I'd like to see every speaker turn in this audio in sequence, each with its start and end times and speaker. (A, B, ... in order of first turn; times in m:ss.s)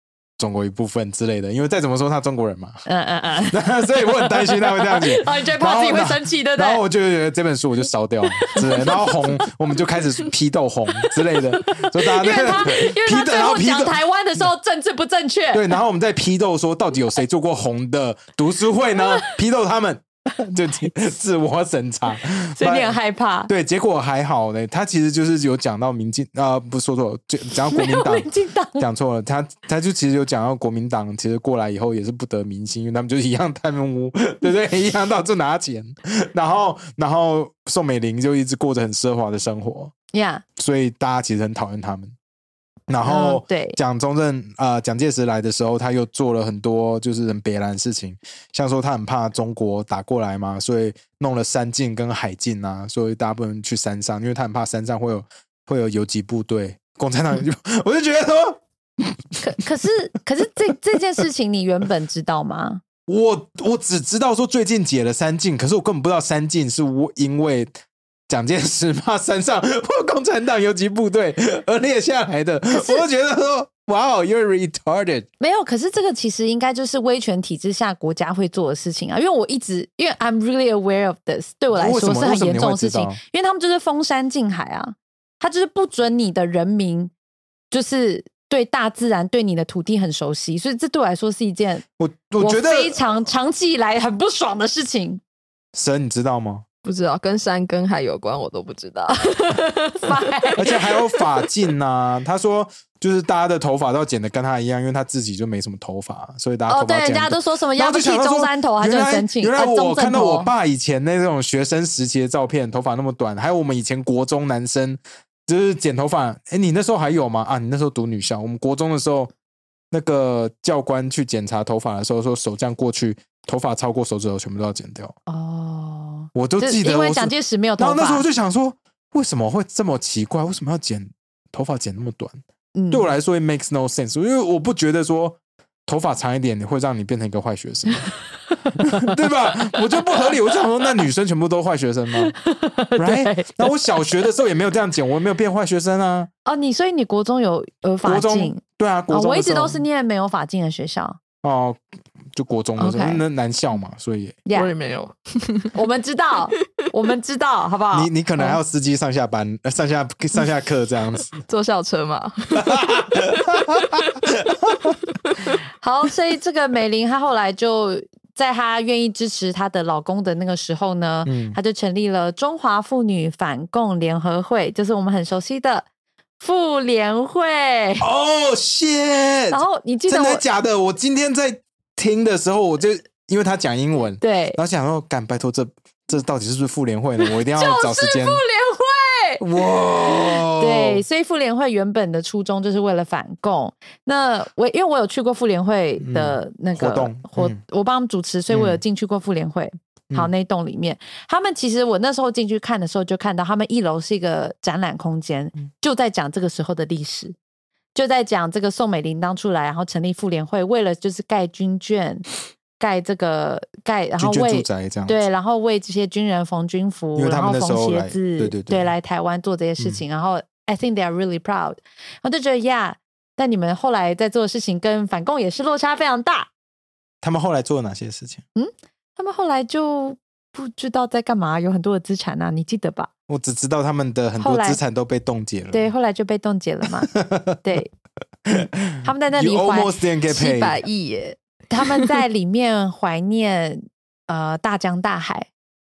0:00.4-0:02.8 A
0:02.9-0:06.8 B
0:03.5-0:14.0 A
0:08.4-0:09.1 B
0:12.0-0:15.8 B
0:15.5-0:23.0 A
0:19.0-0:19.3 B
0:22.6-0:23.5 B
0:23.5-0:39.9 A
0:27.7-0:28.8 B
0:40.1-0:40.4 B
0:40.6-0:42.2 A
0:42.9-0:59.4 A
0:43.0-0:43.8 B
0:59.4-1:02.8 B
1:03.1-1:07.7 A
1:08.3-1:15.3 A
1:12.7-1:13.0 B
1:15.4-1:27.1 B
1:21.7-1:23.2 A
1:27.7-1:31.8 B
1:32.0-1:33.0 A
1:32.4-1:35.2 B
1:35.7-1:36.6 A
1:36.8-1:40.7 C
1:39.5-1:40.8 B
1:40.6-1:59.3 A
1:46.7-1:50.5 B
1:59.9-2:05.2 A
2:05.3-2:08.2 B
2:06.4-2:12.4 A
2:12.8-2:13.1 B
2:12.9-2:18.1 A
2:18.8-2:22.3 A
2:22.2-2:23.9 B
2:23.0-2:26.3 A
2:26.5-2:31.2 B
2:28.0-2:29.8 A
2:31.4-2:31.8 A
2:32.3-2:34.4 A
2:32.8-2:33.2 B
2:34.5-2:34.7 B
2:34.5-2:35.7 C
2:35.7-2:38.6 B
2:37.9-2:41.4 A
2:41.5-2:43.0 C
2:42.6-2:45.0 A
2:45.8-2:55.9 B
2:51.3-2:51.6 A
2:56.4-2:58.1 B
2:58.0-3:08.4 A
2:59.5-3:00.4 B
3:04.2-3:04.6 B
3:07.2-3:09.4 B
3:09.4-3:11.0 A
3:10.0-3:27.4 B
3:16.0-3:17.6 A
3:18.5-3:18.8 A
3:28.0-3:32.3 B
3:32.8-3:46.5 B
3:34.2-3:35.2 A
3:37.2-3:38.9 A
3:47.2-3:48.4 A
3:48.6-3:53.1 B
3:53.3-3:55.9 A
3:54.4-3:54.8 B
3:55.7-3:57.9 B
3:57.1-3:57.6 A
3:58.5-4:00.8 A
3:59.0-3:59.9 B
4:00.3-4:02.1 C
4:01.7-4:05.5 B